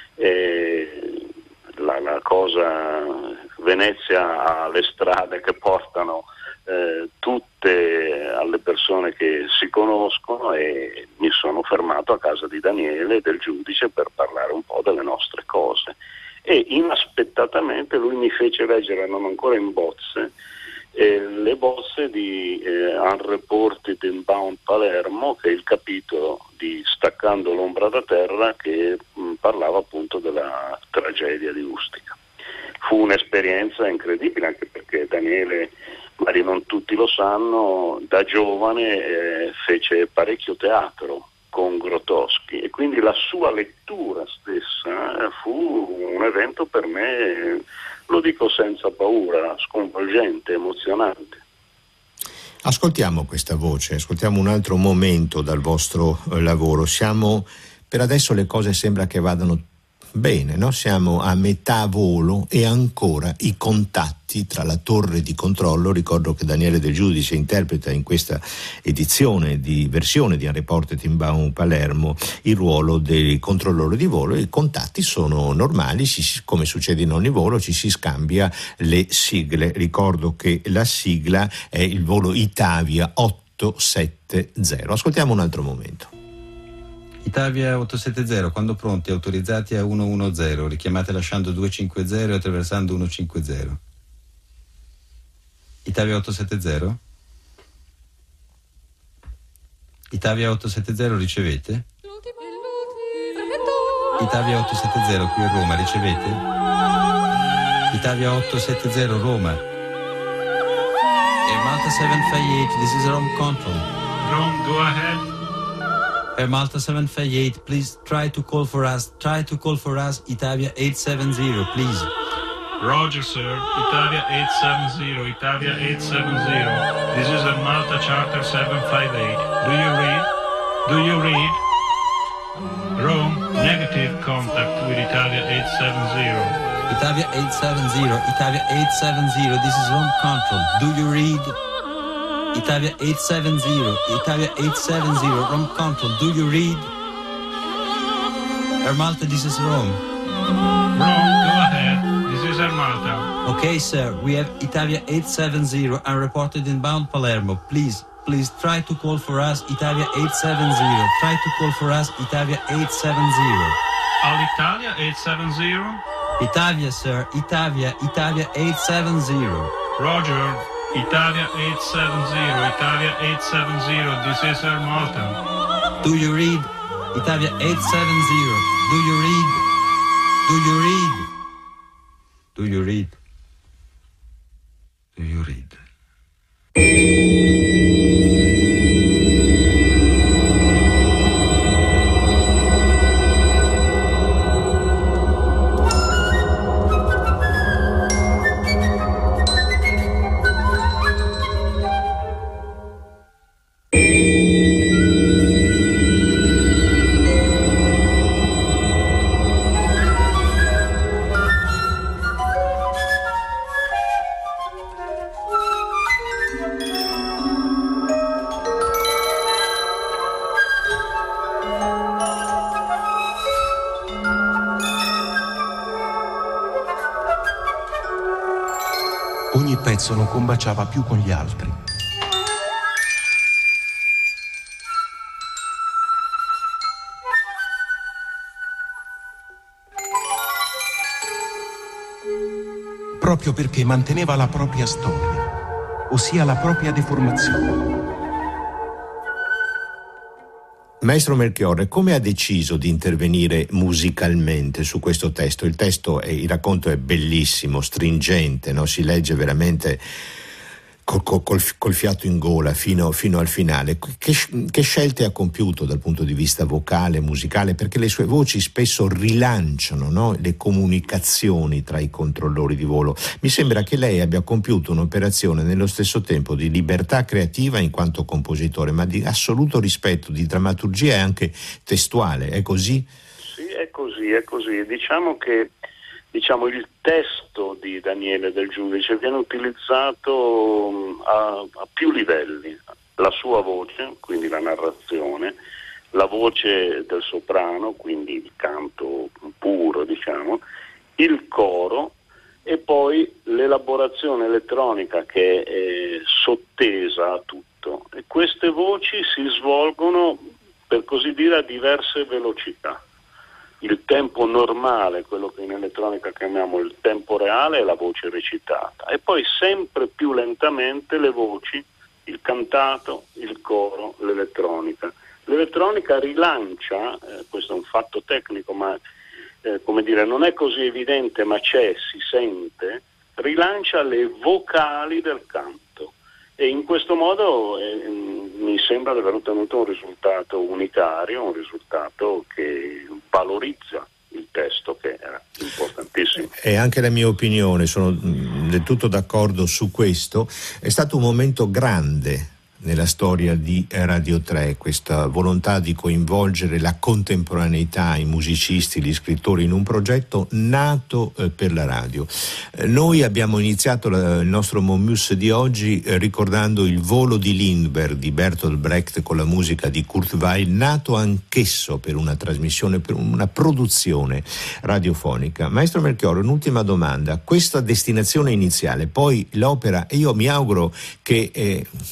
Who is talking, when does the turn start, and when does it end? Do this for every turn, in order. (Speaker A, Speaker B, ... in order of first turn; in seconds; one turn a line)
Speaker A: 0.2-1.2
Speaker A: 1.8-20.3
Speaker A: 20.9-32.2
Speaker A: 32.8-51.4
Speaker B: 52.6-86.1
Speaker C: 87.2-93.8
Speaker C: 95.8-97.0
Speaker C: 100.1-101.8
Speaker C: 104.2-106.4
Speaker C: 107.9-109.6
Speaker C: 111.5-113.9
Speaker D: 114.2-115.3
Speaker C: 116.4-122.1
Speaker D: 122.8-130.3
Speaker D: 130.8-131.6
Speaker D: 133.0-136.6
Speaker C: 136.9-141.6
Speaker C: 142.5-146.9
Speaker C: 148.8-150.0
Speaker D: 150.9-153.3
Speaker C: 153.4-163.8
Speaker D: 164.2-166.0
Speaker C: 166.4-169.7
Speaker D: 170.0-175.4
Speaker C: 176.0-179.6
Speaker C: 180.5-181.3
Speaker C: 182.6-183.2
Speaker C: 185.2-185.8
Speaker E: 229.5-231.8
Speaker E: 243.2-245.5
Speaker E: 246.1-247.9
Speaker B: 251.0-260.0
Speaker B: 261.1-283.1
Speaker A: 283.4-285.7
Speaker A: 286.3-295.6
Speaker A: 296.1-300.6
Speaker A: 301.2-313.0
Speaker A: 313.8-329.0
Speaker A: 329.6-346.5
Speaker B: 346.6-381.9